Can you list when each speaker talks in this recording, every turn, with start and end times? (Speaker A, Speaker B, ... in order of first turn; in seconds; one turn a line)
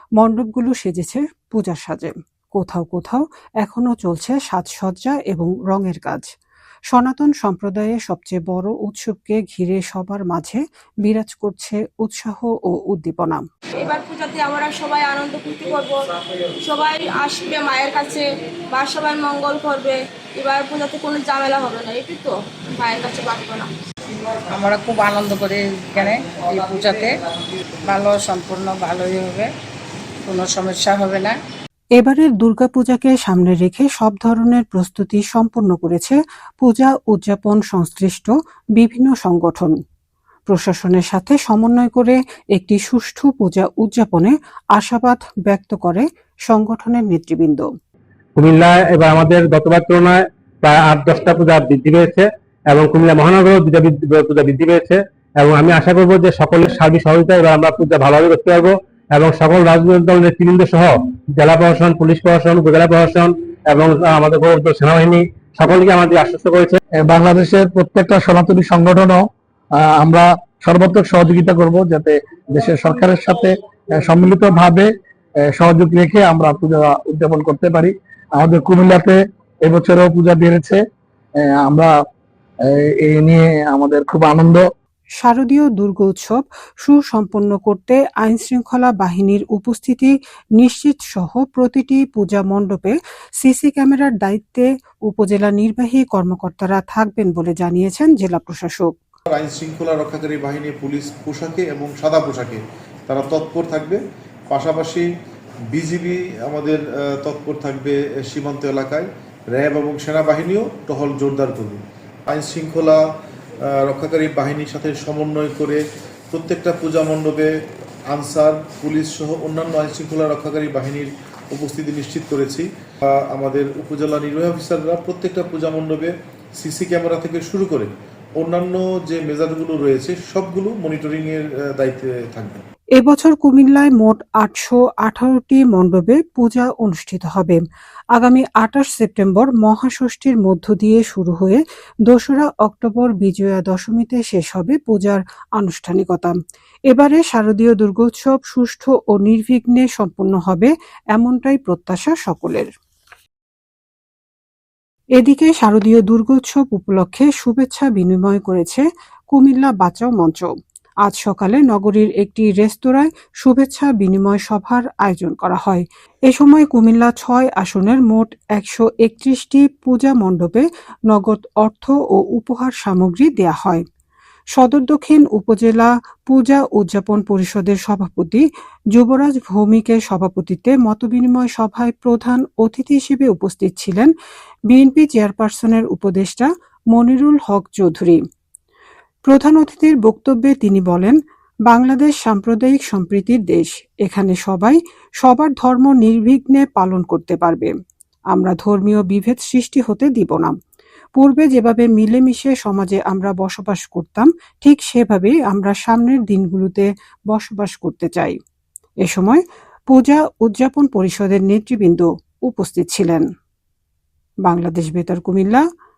Speaker A: 0.2-6.3
Speaker A: 6.9-13.4
Speaker B: 13.8-16.0
Speaker B: 16.6-23.7
Speaker C: 24.5-27.2
Speaker C: 27.8-29.5
Speaker C: 30.2-31.4
Speaker A: 32.0-39.8
Speaker A: 40.5-47.7
Speaker D: 48.4-66.8
Speaker E: 67.0-69.2
Speaker E: 69.8-74.9
Speaker E: 75.5-80.8
Speaker E: 81.4-81.9
Speaker E: 82.7-84.6
Speaker A: 85.2-98.9
Speaker F: 99.3-105.1
Speaker F: 105.7-113.0
Speaker F: 113.7-117.5
Speaker F: 118.1-132.6
Speaker A: 133.0-137.6
Speaker A: 138.1-146.4
Speaker A: 146.9-152.7
Speaker A: 155.2-160.5
Speaker A: 161.0-173.8
Speaker A: 174.5-184.1
Speaker A: 184.7-188.2
Speaker A: 189.3-191.2
Speaker A: 191.7-197.7
Speaker A: 198.3-200.6
Speaker A: 201.2-208.4
Speaker A: 209.0-213.3
Speaker A: 214.4-215.7